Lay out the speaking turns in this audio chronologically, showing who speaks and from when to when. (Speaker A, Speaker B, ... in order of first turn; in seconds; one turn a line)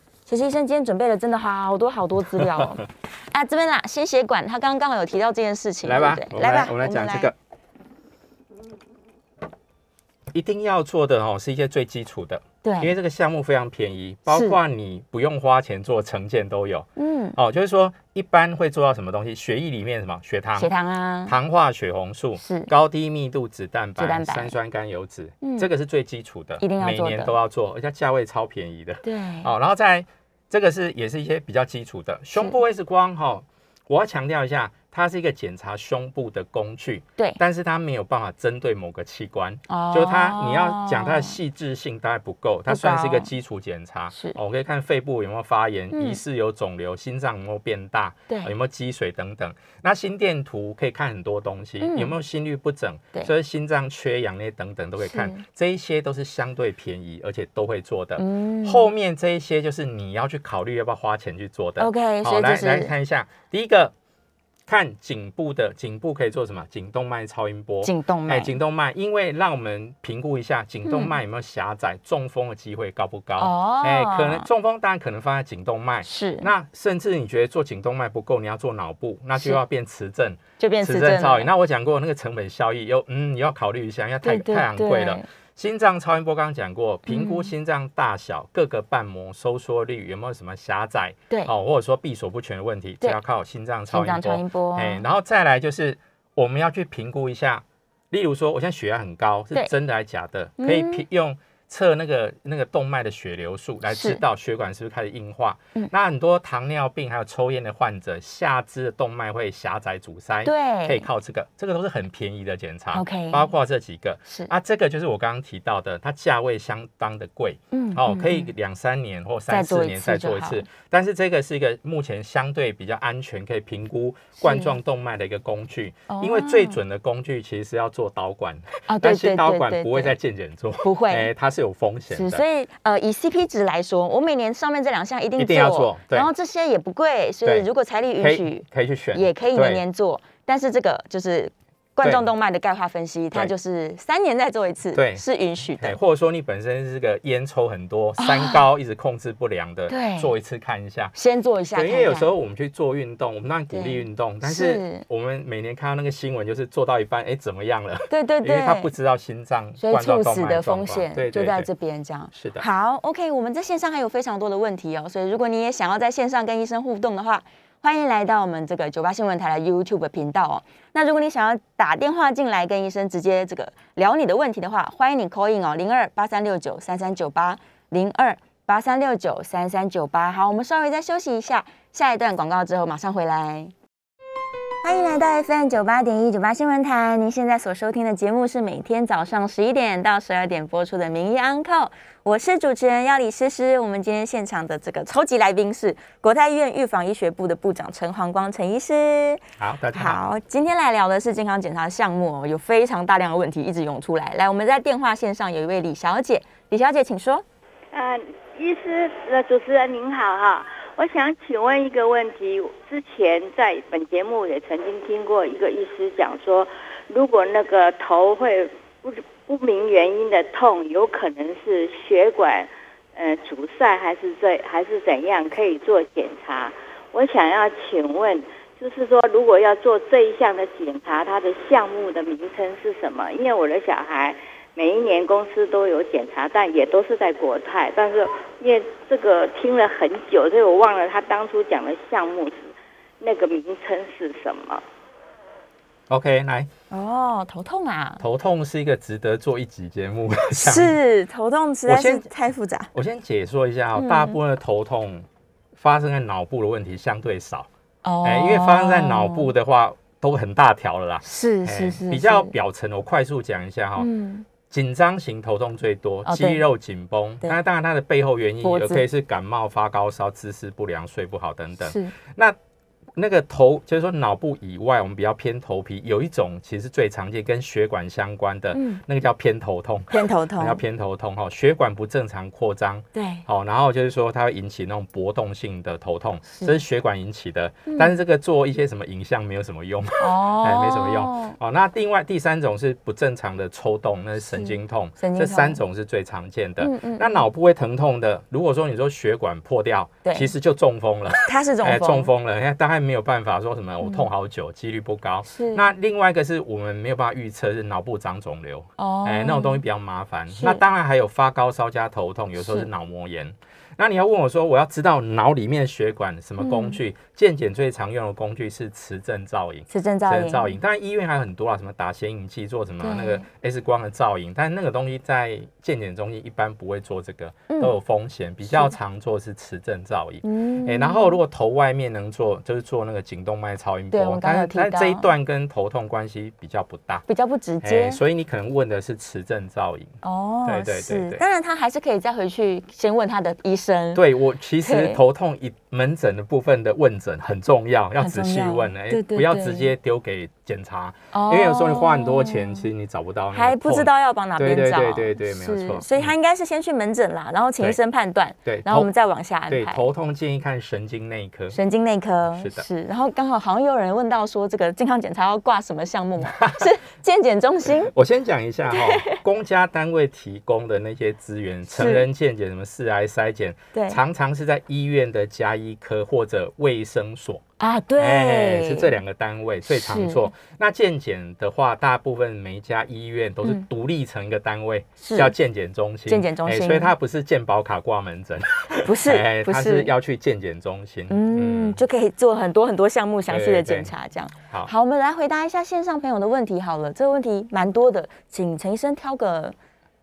Speaker A: 0.3-7.3
Speaker B: 2.4-2.8
Speaker B: 5.8-7.3
Speaker B: 10.3-20.7
Speaker A: 12.6-12.9
Speaker A: 14.3-14.6
Speaker A: 17.0-17.4
Speaker A: 20.6-21.4
Speaker B: 21.3-63.9
Speaker A: 22.4-22.7
Speaker A: 24.0-24.5
Speaker A: 25.4-25.7
Speaker A: 26.6-27.3
Speaker A: 29.0-29.5
Speaker A: 39.7-41.4
Speaker A: 42.7-43.3
Speaker A: 44.1-44.4
Speaker A: 45.9-46.2
Speaker A: 51.8-52.1
Speaker A: 55.0-55.4
Speaker A: 58.2-58.9
Speaker A: 61.8-62.9
Speaker B: 64.7-132.4
Speaker A: 67.8-68.5
Speaker A: 70.8-71.1
Speaker A: 73.4-74.5
Speaker A: 76.0-76.5
Speaker A: 79.3-79.6
Speaker A: 80.6-81.5
Speaker A: 84.2-85.2
Speaker A: 87.1-87.5
Speaker A: 93.9-95.0
Speaker A: 100.6-101.0
Speaker A: 103.9-104.2
Speaker A: 110.4-111.1
Speaker A: 112.9-113.5
Speaker A: 117.7-118.5
Speaker A: 119.5-120.7
Speaker A: 124.4-124.7
Speaker A: 126.1-126.8
Speaker A: 128.9-130.1
Speaker A: 130.8-131.3
Speaker A: 132.1-146.0
Speaker B: 135.3-136.3
Speaker B: 138.2-139.8
Speaker B: 142.0-142.2
Speaker B: 144.9-145.2
Speaker B: 145.8-151.1
Speaker A: 148.2-148.6
Speaker A: 149.9-150.3
Speaker A: 151.1-152.3
Speaker B: 151.7-161.7
Speaker A: 153.7-155.0
Speaker A: 158.1-158.9
Speaker A: 159.8-183.7
Speaker B: 162.3-162.6
Speaker A: 184.8-199.4
Speaker B: 199.6-200.2
Speaker A: 199.9-207.4
Speaker C: 207.9-244.8
Speaker B: 246.1-246.7
Speaker A: 246.9-248.2
Speaker B: 248.2-250.9
Speaker A: 250.6-252.9
Speaker B: 251.9-252.3
Speaker B: 252.9-257.7
Speaker A: 253.9-254.4
Speaker A: 258.0-259.5
Speaker B: 258.2-264.1
Speaker A: 261.2-262.5
Speaker A: 264.0-264.4
Speaker B: 264.6-272.6
Speaker A: 266.2-266.6
Speaker A: 268.6-269.0
Speaker A: 271.8-272.1
Speaker B: 273.1-337.2
Speaker A: 278.7-279.0
Speaker A: 280.1-280.8
Speaker A: 283.1-283.4
Speaker A: 286.5-286.8
Speaker A: 287.9-288.1
Speaker A: 290.2-291.6
Speaker A: 294.4-295.8
Speaker A: 296.8-297.4
Speaker A: 300.2-300.5
Speaker A: 301.4-302.3
Speaker A: 304.0-304.3
Speaker A: 305.5-305.9
Speaker A: 309.0-309.8
Speaker A: 310.5-310.8
Speaker A: 312.6-312.9
Speaker A: 316.6-317.0
Speaker A: 319.9-320.7
Speaker A: 323.0-323.4
Speaker A: 328.6-328.9
Speaker A: 330.4-331.4
Speaker A: 334.1-335.3
Speaker A: 337.3-338.2
Speaker B: 337.8-340.1
Speaker A: 340.2-344.2
Speaker B: 340.6-341.4
Speaker B: 344.1-356.3
Speaker A: 344.8-345.2
Speaker A: 348.2-349.9
Speaker A: 351.3-352.8
Speaker A: 353.5-360.0
Speaker B: 358.6-359.1
Speaker B: 359.7-361.8
Speaker A: 361.7-368.1
Speaker B: 362.5-362.8
Speaker B: 366.4-366.9
Speaker B: 367.9-377.6
Speaker A: 368.9-369.4
Speaker A: 371.9-372.2
Speaker A: 373.9-374.2
Speaker A: 377.8-379.1
Speaker B: 378.2-392.0
Speaker A: 379.9-380.5
Speaker A: 385.2-385.5
Speaker A: 386.3-387.1
Speaker A: 389.0-390.1
Speaker A: 391.3-399.8
Speaker B: 393.5-394.1